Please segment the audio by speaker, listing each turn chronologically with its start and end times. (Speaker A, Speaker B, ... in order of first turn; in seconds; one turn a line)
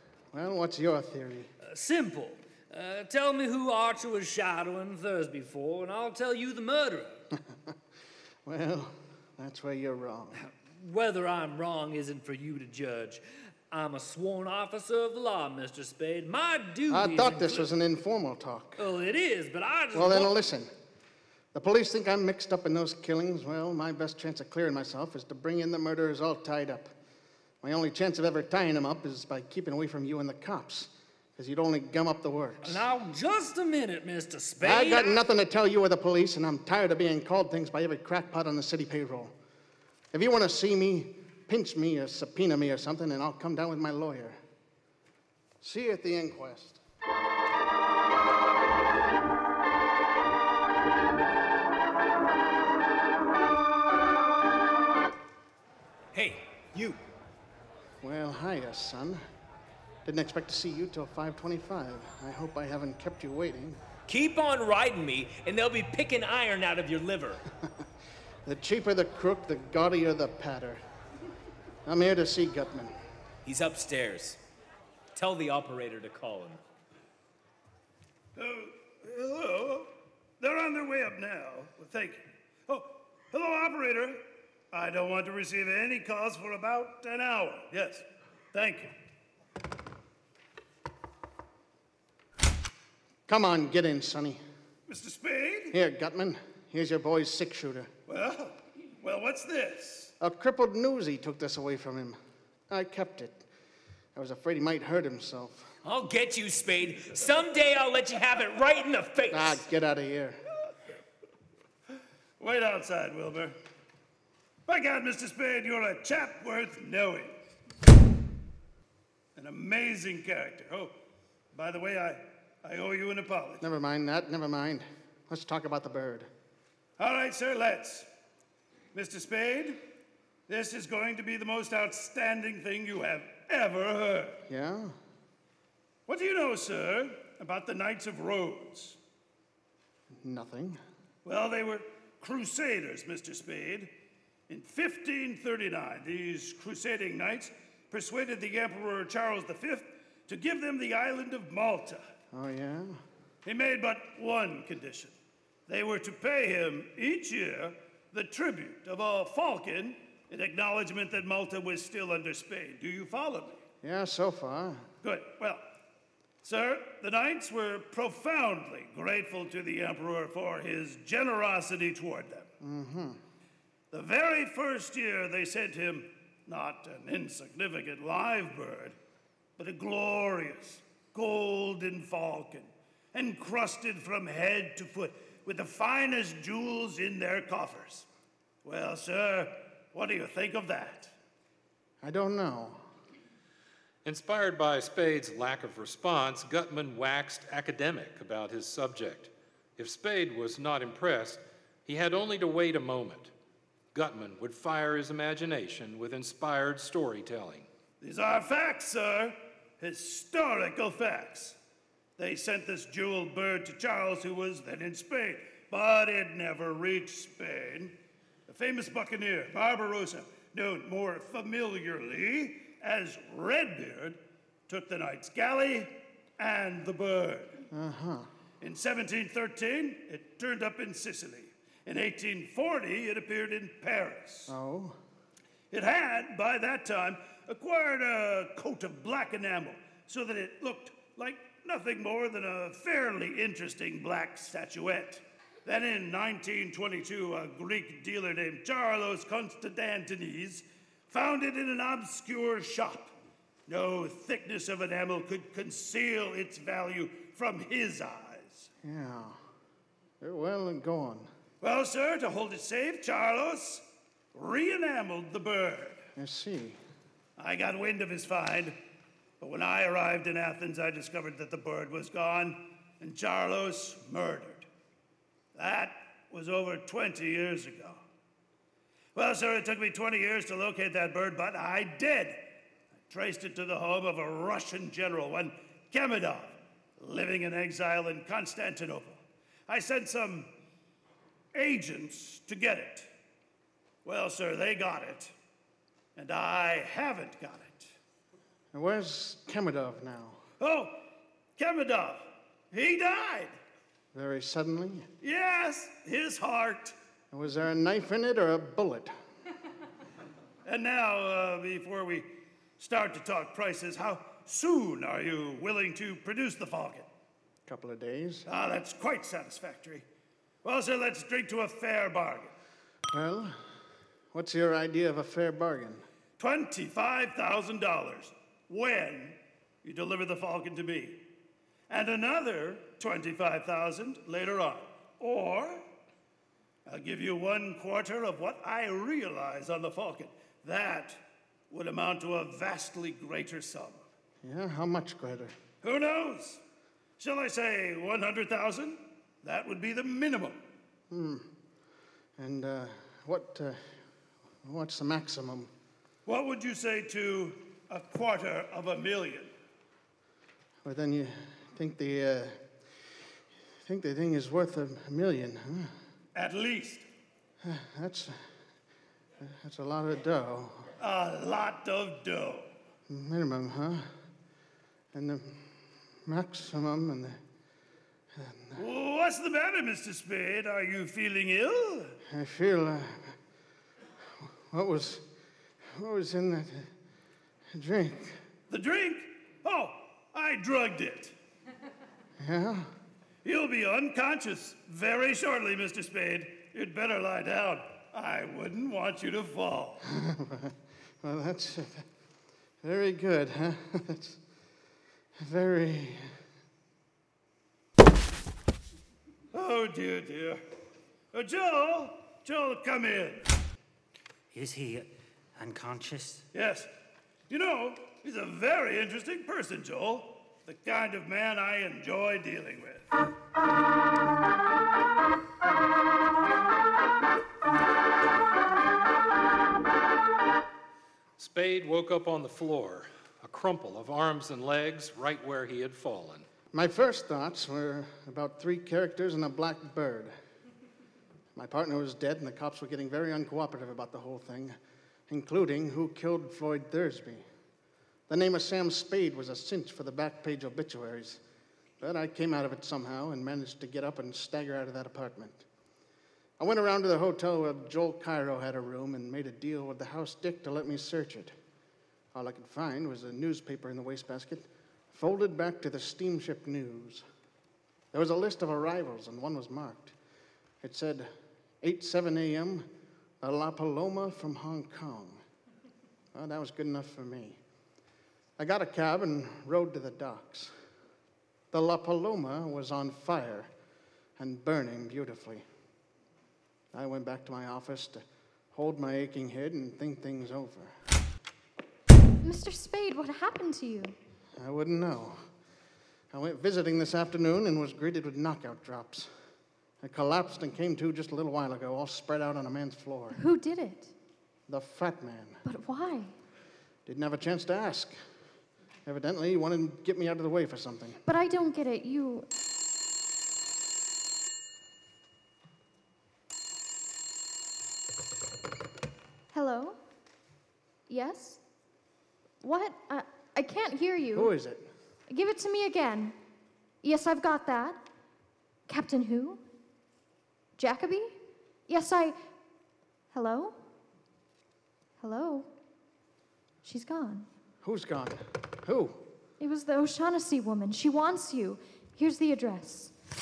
Speaker A: 0.3-1.5
Speaker B: 1.6-7.2
Speaker A: 8.5-10.4
Speaker B: 10.4-17.7
Speaker A: 16.9-18.9
Speaker B: 18.8-20.4
Speaker A: 19.9-20.7
Speaker A: 21.5-26.9
Speaker A: 27.6-32.9
Speaker B: 32.6-35.2
Speaker A: 34.6-39.3
Speaker A: 40.1-44.4
Speaker A: 45.6-46.8
Speaker C: 56.1-57.0
Speaker A: 58.0-59.2
Speaker A: 60.0-63.8
Speaker C: 64.1-67.4
Speaker A: 68.5-70.8
Speaker A: 71.9-73.0
Speaker C: 73.5-74.4
Speaker C: 75.2-76.6
Speaker D: 78.4-84.2
Speaker D: 84.7-88.9
Speaker A: 93.3-94.4
Speaker D: 94.9-95.8
Speaker A: 95.7-97.9
Speaker D: 98.1-100.1
Speaker A: 100.2-102.2
Speaker A: 102.7-103.5
Speaker A: 104.2-105.7
Speaker C: 105.8-109.6
Speaker A: 109.3-110.4
Speaker D: 112.4-113.6
Speaker D: 114.7-117.4
Speaker D: 119.4-120.9
Speaker D: 121.5-123.6
Speaker A: 123.6-126.3
Speaker D: 127.0-128.1
Speaker D: 128.9-129.8
Speaker D: 130.5-134.4
Speaker A: 134.5-134.9
Speaker D: 136.1-139.0
Speaker A: 140.1-140.8
Speaker D: 141.2-143.9
Speaker D: 144.5-152.0
Speaker A: 152.3-153.0
Speaker D: 153.4-155.1
Speaker D: 155.7-163.6
Speaker A: 163.8-164.9
Speaker D: 165.0-165.6
Speaker D: 166.4-172.5
Speaker A: 172.6-173.2
Speaker D: 173.9-179.0
Speaker D: 179.6-188.1
Speaker D: 188.6-191.1
Speaker A: 192.0-192.8
Speaker E: 194.1-203.3
Speaker E: 203.9-207.7
Speaker D: 208.0-211.6
Speaker D: 212.2-217.9
Speaker D: 218.5-227.6
Speaker A: 227.7-228.3
Speaker D: 228.6-234.5
Speaker A: 234.5-235.0
Speaker D: 235.7-253.1
Speaker D: 253.7-258.7
Speaker A: 258.8-259.4
Speaker A: 260.2-261.3
Speaker D: 261.6-266.0
Speaker A: 266.2-266.8
Speaker D: 267.4-268.8
Speaker D: 269.4-274.7
Speaker D: 275.6-278.0
Speaker D: 279.1-282.4
Speaker D: 283.1-290.5
Speaker D: 291.5-293.1
Speaker D: 294.0-295.3
Speaker D: 296.2-297.9
Speaker A: 298.7-300.4
Speaker D: 300.6-300.9
Speaker D: 301.6-303.6
Speaker A: 304.1-305.1
Speaker D: 305.2-306.9
Speaker A: 307.3-309.1
Speaker D: 310.6-312.3
Speaker D: 312.8-317.1
Speaker A: 317.7-318.5
Speaker D: 318.5-320.1
Speaker D: 320.6-322.5
Speaker A: 323.1-323.6
Speaker A: 324.3-326.1
Speaker D: 326.4-331.2
Speaker D: 331.9-335.9
Speaker D: 336.9-344.1
Speaker A: 344.4-345.6
Speaker D: 345.8-346.6
Speaker D: 347.2-350.6
Speaker A: 351.1-351.5
Speaker A: 352.4-353.9
Speaker A: 354.6-355.7
Speaker D: 356.3-359.5
Speaker A: 360.8-362.6
Speaker A: 363.8-365.9
Speaker D: 366.4-367.1
Speaker A: 367.6-368.4
Speaker A: 369.4-370.9
Speaker D: 371.0-372.7
Speaker A: 373.1-374.1
Speaker A: 375.1-375.7
Speaker A: 376.3-377.4
Speaker A: 378.4-378.8
Speaker D: 378.8-382.1
Speaker A: 382.3-383.4
Speaker A: 384.4-385.2
Speaker A: 385.9-386.9
Speaker A: 387.7-388.4
Speaker D: 388.7-391.3
Speaker A: 392.4-392.9
Speaker D: 393.4-400.0
Speaker A: 400.1-402.0
Speaker A: 402.8-404.4
Speaker A: 405.4-406.3
Speaker D: 409.5-410.6
Speaker D: 411.3-413.4
Speaker F: 414.5-416.5
Speaker D: 416.5-416.9
Speaker D: 417.5-423.1
Speaker E: 431.4-436.5
Speaker A: 436.7-440.3
Speaker A: 441.5-444.8
Speaker A: 445.3-447.4
Speaker A: 448.3-451.4
Speaker A: 452.0-455.6
Speaker A: 456.6-461.6
Speaker A: 462.3-467.2
Speaker A: 468.1-470.1
Speaker A: 470.8-471.3
Speaker A: 471.8-472.9
Speaker A: 473.4-475.4
Speaker A: 476.3-477.6
Speaker A: 478.6-480.7
Speaker A: 481.7-483.7
Speaker A: 484.4-485.6
Speaker A: 486.9-490.9
Speaker G: 492.4-494.2
Speaker A: 494.6-495.4
Speaker A: 496.3-499.3
Speaker A: 500.0-503.4
Speaker G: 503.3-504.1
Speaker A: 504.7-505.6
Speaker G: 505.6-506.3
Speaker A: 507.1-508.2
Speaker A: 509.1-511.2
Speaker G: 511.2-512.5
Speaker G: 519.5-520.0
Speaker G: 521.1-521.6
Speaker G: 522.6-524.5
Speaker A: 524.3-524.9
Speaker G: 525.3-526.4
Speaker G: 527.0-528.0
Speaker G: 528.9-529.6
Speaker G: 530.8-531.4
Speaker G: 531.9-532.4
Speaker G: 533.3-533.8
Speaker G: 535.2-535.7
Speaker G: 536.8-537.5
Speaker A: 537.8-539.2
Speaker G: 539.6-543.1